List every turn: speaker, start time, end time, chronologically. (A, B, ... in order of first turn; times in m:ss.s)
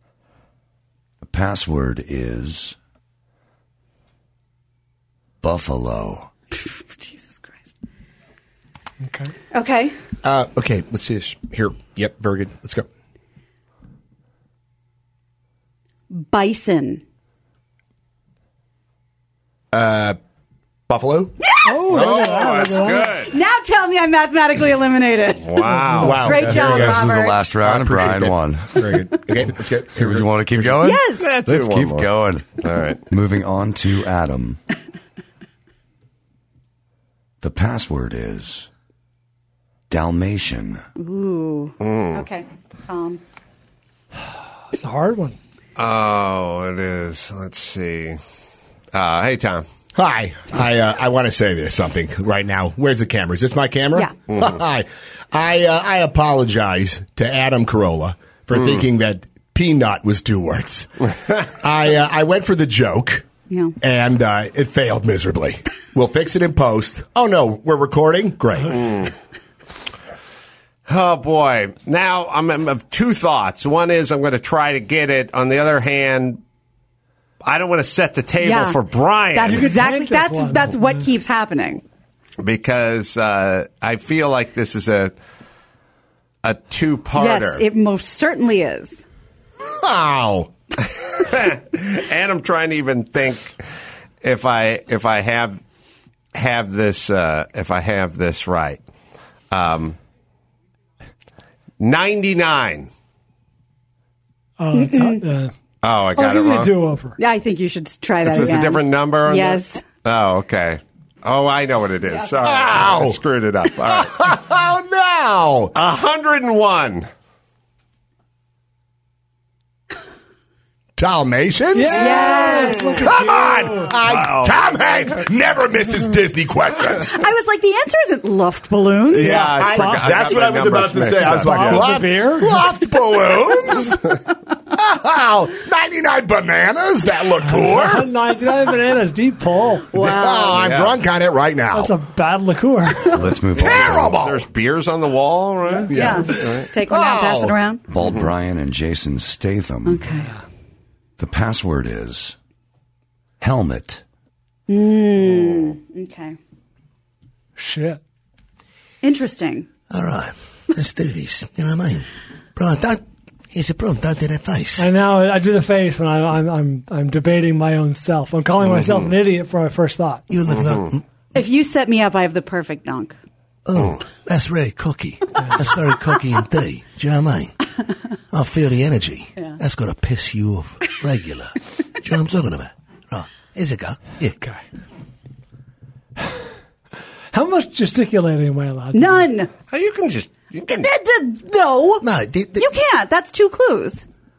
0:01.2-0:02.8 A
0:05.4-0:06.3 A
0:06.6-0:07.5 B
0:09.0-0:09.3 C
0:09.5-0:09.9 B
0:10.2-0:12.8 D
0:16.1-0:17.0 B
0:19.7-0:20.2 D
0:20.9-0:21.4 D
0:21.6-0:23.2 C
0:21.9-0:23.3 E
0:23.3-0:27.5 B
0:25.4-0:26.3 E
0:25.7-0:26.3 C
0:26.0-0:30.9 D
0:26.3-0:28.8 A
0:29.5-0:32.5 A
0:30.8-0:31.3 B
0:31.2-0:33.0 E
0:33.0-0:34.6 A
0:37.4-0:38.7 A
0:39.9-0:40.8 A
0:41.0-0:43.2 B
0:41.8-0:42.2 E
0:44.7-0:45.4 C
0:45.8-0:48.2 E
0:48.9-0:49.6 E
0:49.9-1:00.9 D
1:01.6-1:03.3 D
1:03.5-1:03.7 B
1:03.8-1:08.8 D
1:08.7-1:09.1 E
1:10.9-1:16.4 E
1:17.4-1:19.7 E
1:18.4-1:18.8 B
1:19.3-1:21.8 B
1:19.4-1:20.9 C
1:22.4-1:25.1 E
1:26.4-1:27.6 E
1:27.1-1:29.0 B
1:29.8-1:30.5 D
1:31.0-1:33.6 E
1:34.2-1:35.6 E
1:36.3-1:38.8 E
1:39.5-1:40.0 E
1:41.8-1:42.9 E
1:44.6-1:45.5 C
1:44.7-1:45.2 B
1:45.8-1:46.7 E
1:46.1-1:47.2 C
1:47.2-1:49.8 B
1:48.2-1:54.4 E
1:52.4-1:53.2 D
1:53.8-1:55.7 D
1:55.7-1:57.1 E
2:01.0-2:02.4 D
2:01.7-2:04.0 C
2:01.9-2:03.0 B
2:03.0-2:07.2 D
2:04.0-2:04.8 E
2:07.1-2:09.6 B
2:09.1-2:12.0 E
2:09.1-2:14.1 D
2:09.3-2:10.4 C
2:11.0-2:12.7 C
2:14.7-2:18.1 D
2:17.4-2:19.9 C
2:19.9-2:20.6 B
2:19.9-2:21.9 D
2:20.4-2:20.9 E
2:21.7-2:23.2 C
2:23.1-2:24.2 A
2:23.6-2:24.4 D
2:23.6-2:26.7 E
2:25.7-2:26.1 C
2:25.9-2:27.6 D
2:25.9-2:27.8 B
2:27.9-2:30.0 A
2:28.0-2:28.3 E
2:29.8-2:30.3 B
2:31.2-2:32.4 A
2:33.4-2:34.0 A
2:34.7-2:36.4 B
2:37.6-2:38.0 C
2:39.0-2:39.7 B
2:39.9-2:44.9 F
2:44.8-2:50.2 C
2:48.6-2:49.1 E
2:50.3-2:51.0 F
2:50.5-2:50.8 E
2:51.3-2:53.2 B
2:53.6-2:57.6 F
2:58.3-3:04.3 F
3:07.3-3:09.3 C
3:08.9-3:09.5 B
3:09.7-3:10.9 E
3:10.7-3:14.0 B
3:12.0-3:12.7 F